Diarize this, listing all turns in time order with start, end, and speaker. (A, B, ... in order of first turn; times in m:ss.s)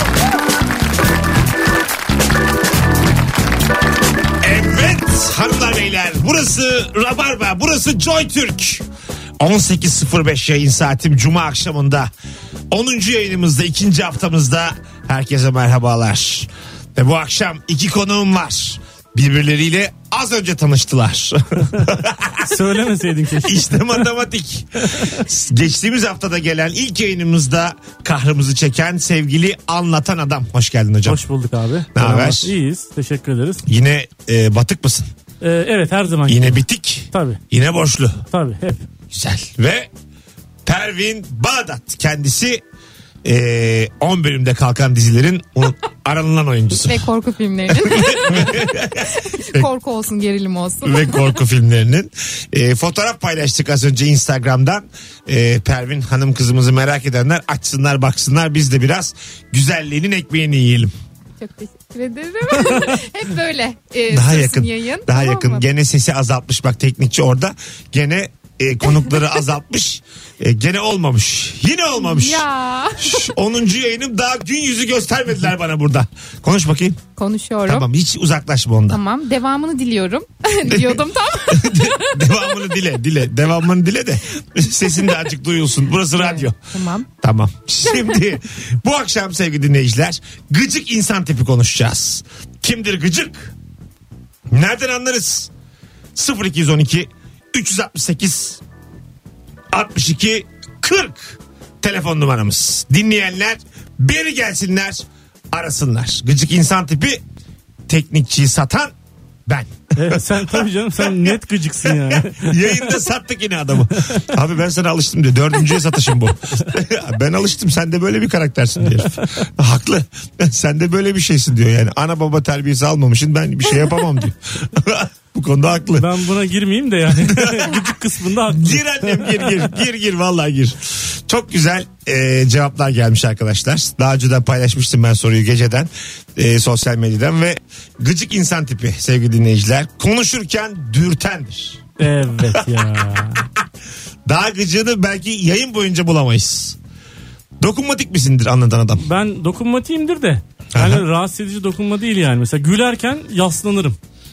0:04.4-0:08.8 A
0:09.4-0:12.1 A
0:12.7-0:22.6 A
0:22.5-0:24.0 B
0:23.4-0:31.2 A
0:24.9-0:25.2 B
0:31.0-0:33.6 B
0:31.9-0:32.5 A
0:33.6-0:35.1 A
0:35.4-0:37.4 B
0:36.3-0:38.2 A
0:38.3-0:38.8 B
0:39.1-0:39.9 A
0:40.6-0:42.6 A
0:43.2-0:47.0 A
0:46.8-0:48.7 C
0:47.7-0:49.7 A
0:49.3-0:51.3 C
0:50.8-1:00.9 A
1:01.4-1:05.6 C
1:04.1-1:17.0 A
1:12.0-1:13.3 C
1:17.2-1:17.8 C
1:17.6-1:19.0 A
1:18.9-1:22.4 C
1:20.6-1:26.6 A
1:26.2-1:27.1 C
1:27.2-1:33.5 A
1:34.5-1:35.5 A
1:36.1-1:38.6 A
1:39.7-1:47.2 A
1:47.9-1:48.9 A
1:49.5-1:51.4 A
1:50.0-1:52.9 B
1:51.9-2:06.1 A
2:06.0-2:09.6 B
2:07.1-2:07.8 A
2:08.5-2:21.9 A
2:22.0-2:23.4 B
2:24.3-2:26.8 A
2:27.6-2:29.0 A
2:29.0-2:34.0 B
2:30.7-2:31.0 A